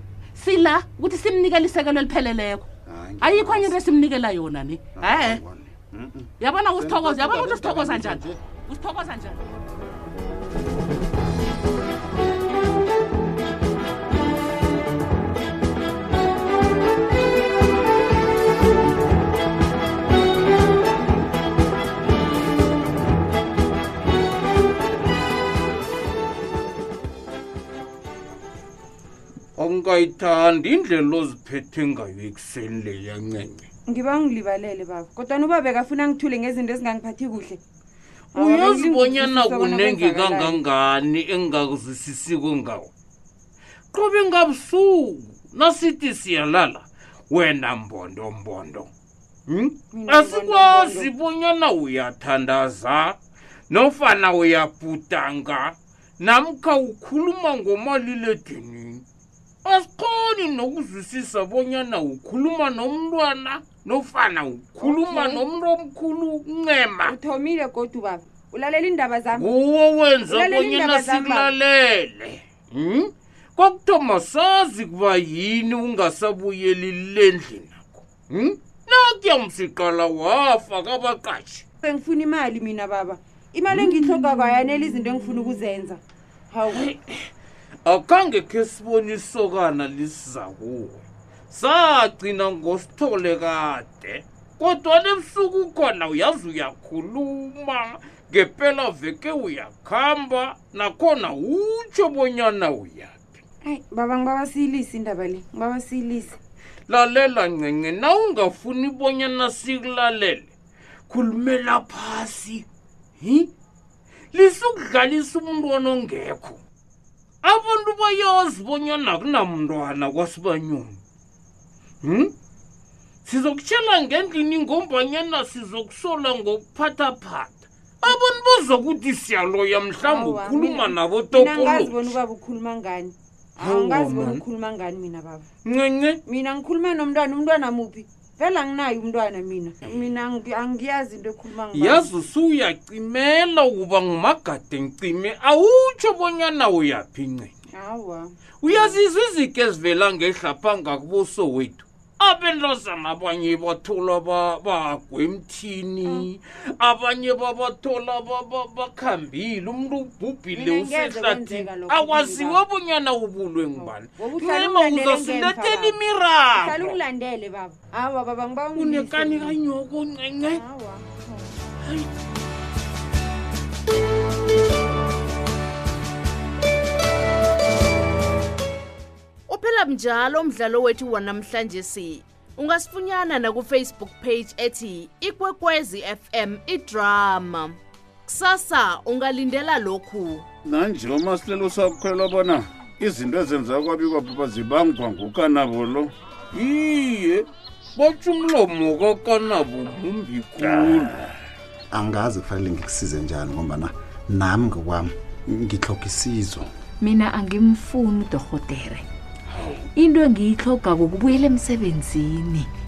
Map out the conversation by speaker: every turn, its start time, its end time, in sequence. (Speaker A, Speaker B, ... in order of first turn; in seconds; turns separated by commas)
Speaker A: 0.4-2.7, Speaker B: 2.9-3.8, Speaker A: 3.2-5.4, Speaker B: 5.0-8.4, Speaker A: 6.4-9.4, Speaker C: 29.6-33.6, Speaker D: 33.9-37.6, Speaker D: 38.3-40.6, Speaker C: 38.4-42.9, Speaker C: 43.9-48.9, Speaker C: 49.5-53.2, Speaker D: 49.9-51.1, Speaker C: 53.7-59.0, Speaker C: 59.6-67.1, Speaker D: 64.8-65.4, Speaker D: 67.0-69.5, Speaker C: 69.3-81.6, Speaker D: 70.3-71.5, Speaker D: 81.8-86.9, Speaker C: 86.7-87.3, Speaker C: 87.8-103.4, Speaker D: 103.6-106.4, Speaker C: 106.9-110.5, Speaker C: 111.1-112.7, Speaker C: 113.2-113.5, Speaker C: 114.3-116.6, Speaker C: 117.4-121.0, Speaker C: 122.0-122.3, Speaker C: 123.2-132.1, Speaker D: 130.0-135.4, Speaker C: 133.6-134.4, Speaker C: 135.7-136.2, Speaker D: 136.3-142.1, Speaker C: 141.7-147.5, Speaker D: 147.8-149.0, Speaker C: 148.6-167.0, Speaker D: 160.6-162.6, Speaker D: 163.8-166.0, Speaker D: 166.6-169.6, Speaker C: 168.8-170.6, Speaker D: 170.5-171.4, Speaker C: 171.8-172.1, Speaker E: 179.5-190.4, Speaker F: 190.7-196.1, Speaker C: 196.5-201.3, Speaker B: 201.9-206.7, Speaker G: 207.0-209.0, Speaker B: 209.5-209.8, Speaker G: 209.9-212.7